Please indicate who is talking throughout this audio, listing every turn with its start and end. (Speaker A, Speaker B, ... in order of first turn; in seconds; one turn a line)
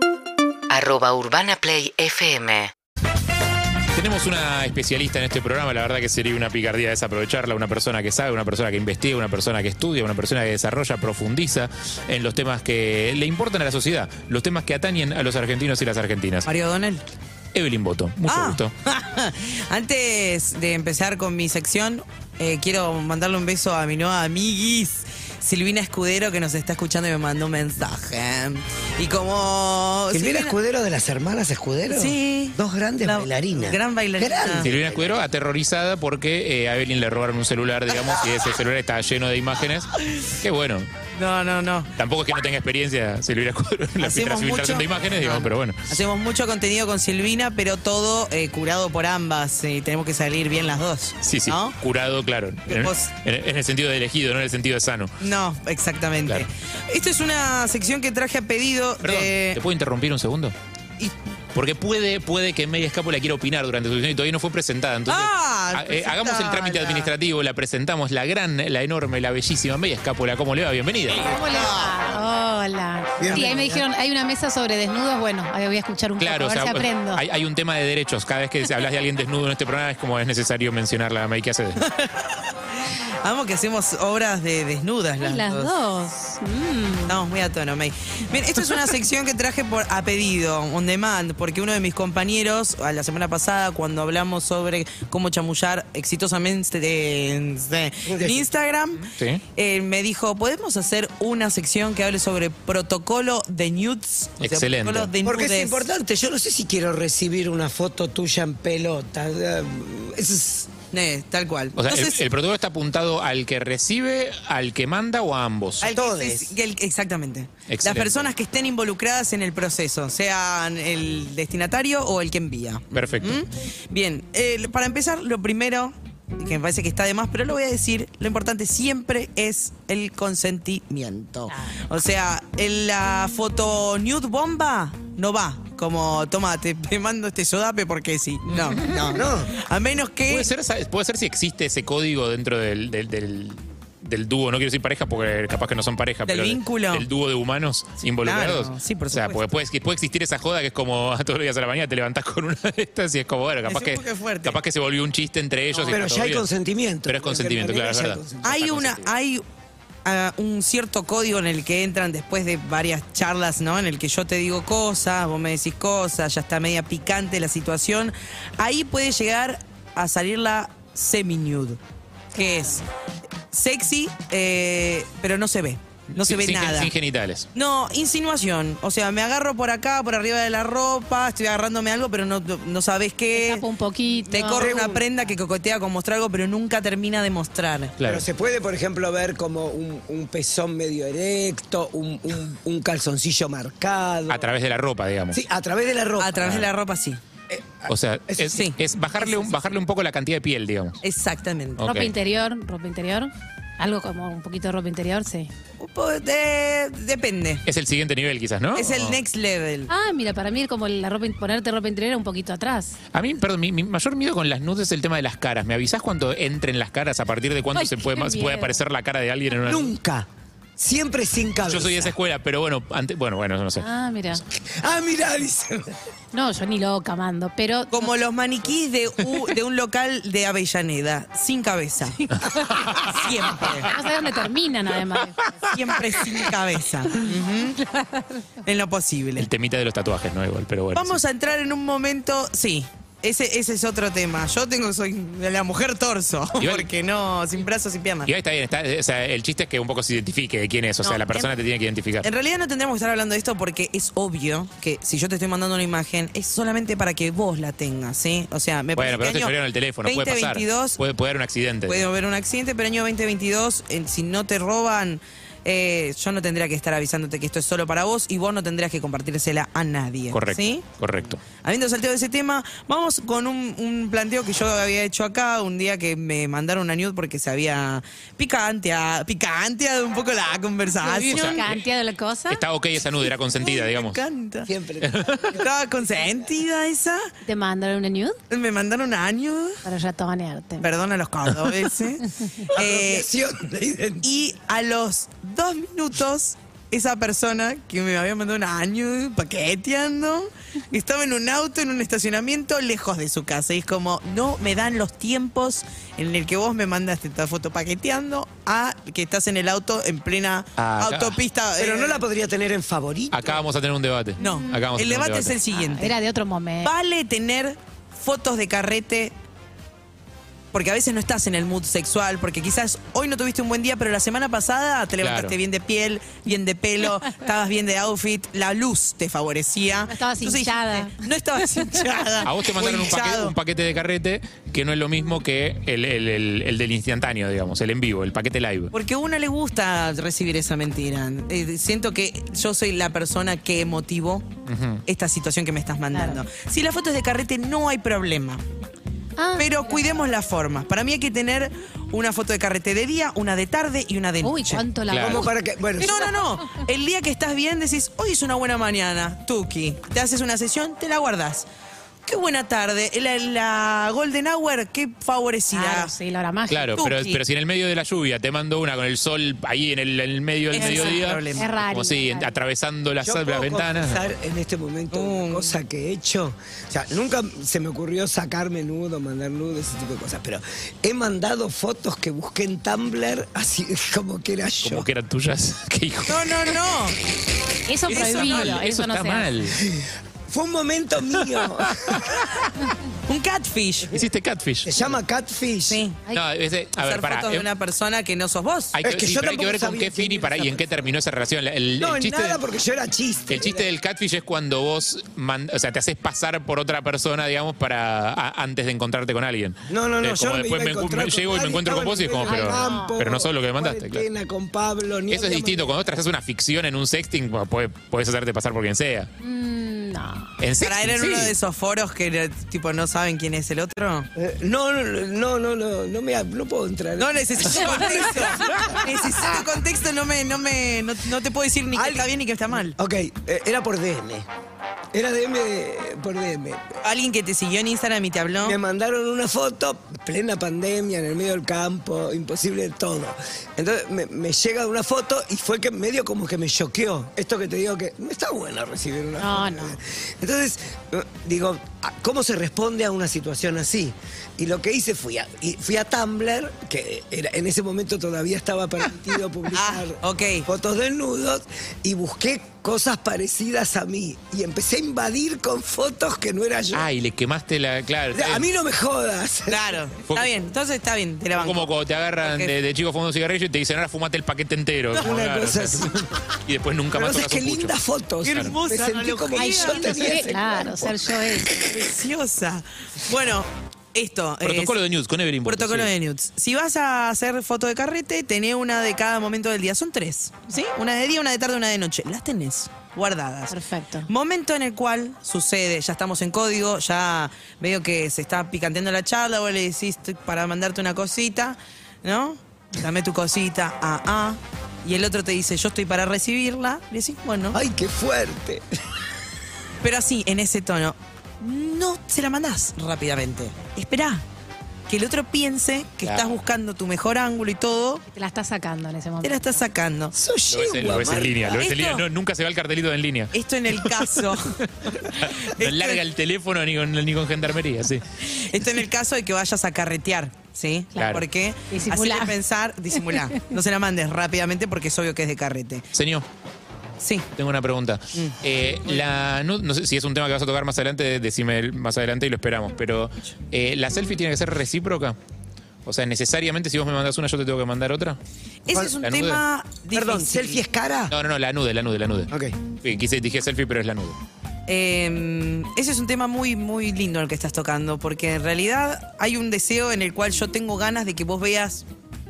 Speaker A: 0.7-2.7
Speaker B: 3.9-16.4
Speaker C: 16.4-17.0
Speaker B: 17.5-18.7
Speaker C: 18.2-30.6
Speaker D: 30.1-35.2
Speaker C: 31.9-34.7
Speaker B: 34.6-39.9
Speaker B: 40.4-40.9
Speaker C: 41.1-41.9
Speaker B: 42.0-45.8
Speaker C: 44.0-51.8
Speaker B: 51.2-55.1
Speaker C: 52.7-53.1
Speaker C: 55.2-59.6
Speaker B: 59.0-60.5
Speaker B: 61.5-71.2
Speaker C: 65.0-67.1
Speaker C: 71.1-72.0
Speaker E: 71.2-77.2
Speaker D: 73.2-73.8
Speaker B: 76.2-81.8
Speaker C: 81.8-82.5
Speaker C: 83.2-85.7
Speaker E: 85.2-87.2
Speaker C: 87.1-105.8
Speaker D: 98.0-98.5
Speaker B: 104.4-105.1
Speaker D: 105.2-110.7
Speaker C: 110.9-112.2
Speaker B: 111.7-115.8
Speaker C: 115.8-140.5
Speaker D: 115.9-116.5
Speaker B: 117.7-118.3
Speaker B: 122.9-123.3
Speaker E: 131.5-131.7
Speaker D: 139.0-139.5
Speaker B: 140.3-156.4
Speaker C: 146.2-147.1
Speaker C: 148.2-149.4
Speaker C: 153.7-154.6
Speaker C: 155.7-156.1
Speaker D: 155.9-158.7
Speaker B: 157.1-159.0
Speaker C: 158.4-159.4
Speaker C: 160.0-171.8
Speaker C: 172.3-172.8
Speaker E: 172.3-172.8
Speaker C: 173.5-176.9
Speaker B: 176.2-177.5
Speaker C: 177.5-183.7
Speaker E: 183.3-184.8
Speaker C: 184.2-188.0
Speaker D: 184.5-185.1
Speaker B: 188.0-188.2
Speaker D: 188.0-194.4
Speaker B: 194.3-195.3
Speaker D: 195.3-196.6
Speaker C: 196.2-197.2
Speaker D: 197.5-198.5
Speaker B: 197.9-201.0
Speaker C: 198.5-199.7
Speaker C: 201.0-201.8
Speaker B: 201.8-202.1
Speaker E: 201.8-205.5
Speaker C: 205.8-207.6
Speaker B: 207.7-209.2
Speaker C: 208.7-209.9
Speaker E: 209.9-213.0
Speaker B: 213.1-219.9
Speaker E: 217.7-218.8
Speaker D: 219.6-220.3
Speaker D: 220.8-222.1
Speaker B: 221.7-223.9
Speaker E: 223.8-224.4
Speaker D: 224.8-225.8
Speaker E: 226.3-228.1
Speaker C: 227.9-233.9
Speaker E: 232.3-233.1
Speaker E: 233.7-235.5
Speaker C: 235.7-237.8
Speaker E: 237.9-238.2
Speaker C: 238.6-239.5
Speaker B: 239.4-241.2
Speaker C: 240.9-248.3
Speaker B: 246.6-246.8
Speaker B: 248.2-252.3
Speaker C: 251.0-251.5
Speaker C: 252.2-261.0
Speaker B: 258.9-262.0
Speaker C: 261.9-270.9
Speaker B: 270.3-271.4
Speaker C: 271.5-281.7
Speaker B: 281.0-281.6
Speaker E: 281.3-282.6
Speaker B: 282.5-284.2
Speaker C: 283.6-284.7
Speaker D: 284.6-286.5
Speaker B: 285.0-285.4
Speaker C: 285.6-287.2
Speaker E: 287.4-288.4
Speaker C: 288.5-289.7
Speaker E: 289.8-290.9
Speaker C: 290.8-293.3
Speaker D: 292.7-294.3
Speaker C: 294.2-312.2
Speaker B: 310.8-311.4
Speaker D: 311.8-313.6
Speaker B: 313.3-315.6
Speaker E: 314.4-314.8
Speaker C: 314.4-316.1
Speaker E: 315.7-316.9
Speaker C: 316.8-319.3
Speaker C: 320.7-333.6
Speaker B: 325.2-325.5
Speaker E: 330.1-331.1
Speaker B: 332.4-338.9
Speaker C: 338.9-344.5
Speaker B: 344.6-345.0
Speaker C: 345.1-348.6
Speaker E: 346.1-346.4
Speaker E: 349.4-350.1
Speaker C: 349.6-354.8
Speaker E: 354.4-356.4
Speaker B: 355.1-355.4
Speaker D: 355.1-356.2
Speaker C: 356.0-361.7
Speaker C: 362.2-366.1
Speaker E: 365.7-367.0
Speaker B: 366.7-374.2
Speaker C: 367.0-367.4
Speaker C: 370.7-371.7
Speaker E: 370.8-372.5
Speaker D: 373.2-385.1
Speaker C: 375.1-375.8
Speaker B: 384.8-386.4
Speaker C: 386.3-387.2
Speaker E: 387.9-389.5
Speaker C: 388.1-388.8
Speaker B: 388.1-389.7
Speaker D: 389.8-392.4
Speaker B: 391.9-392.4
Speaker C: 393.3-394.2
Speaker B: 394.1-394.9
Speaker D: 394.8-396.0
Speaker C: 395.9-396.2
Speaker B: 396.3-397.6
Speaker C: 397.0-399.0
Speaker B: 399.0-402.6
Speaker D: 399.0-400.9
Speaker D: 402.0-403.9
Speaker B: 403.5-414.2
Speaker D: 409.9-416.0
Speaker E: 412.4-413.2
Speaker B: 415.3-419.3
Speaker E: 419.4-420.6
Speaker B: 420.6-421.6
Speaker C: 420.8-424.3
Speaker D: 424.4-429.6
Speaker C: 427.1-432.9
Speaker D: 431.9-432.3
Speaker D: 432.9-434.4
Speaker D: 435.1-436.8
Speaker C: 437.0-438.8
Speaker D: 438.6-467.1
Speaker E: 449.4-449.9
Speaker C: 459.7-460.7
Speaker B: 466.9-468.6
Speaker D: 468.3-470.0
Speaker C: 469.7-472.7
Speaker B: 471.6-476.1
Speaker C: 475.1-475.4
Speaker D: 475.2-476.1
Speaker B: 476.7-477.9
Speaker D: 477.1-481.9
Speaker C: 478.4-480.4
Speaker E: 479.5-481.7
Speaker C: 481.9-485.0
Speaker B: 484.6-486.1
Speaker C: 485.6-507.8
Speaker E: 493.7-494.3
Speaker D: 507.7-508.8
Speaker C: 510.0-514.4
Speaker C: 515.1-518.2
Speaker E: 518.3-519.7
Speaker C: 519.4-520.3
Speaker D: 520.3-521.8
Speaker B: 520.7-524.0
Speaker C: 521.2-522.3
Speaker C: 523.5-526.2
Speaker B: 525.4-528.2
Speaker C: 528.4-536.0
Speaker B: 531.2-531.4
Speaker E: 531.9-532.5
Speaker B: 536.1-536.5
Speaker C: 537.2-537.5
Speaker B: 537.5-545.4
Speaker B: 546.0-548.4
Speaker C: 548.9-550.8
Speaker B: 549.2-549.6
Speaker D: 550.1-551.3
Speaker B: 551.3-552.5
Speaker D: 552.5-552.8
Speaker B: 553.0-554.4
Speaker C: 554.9-562.0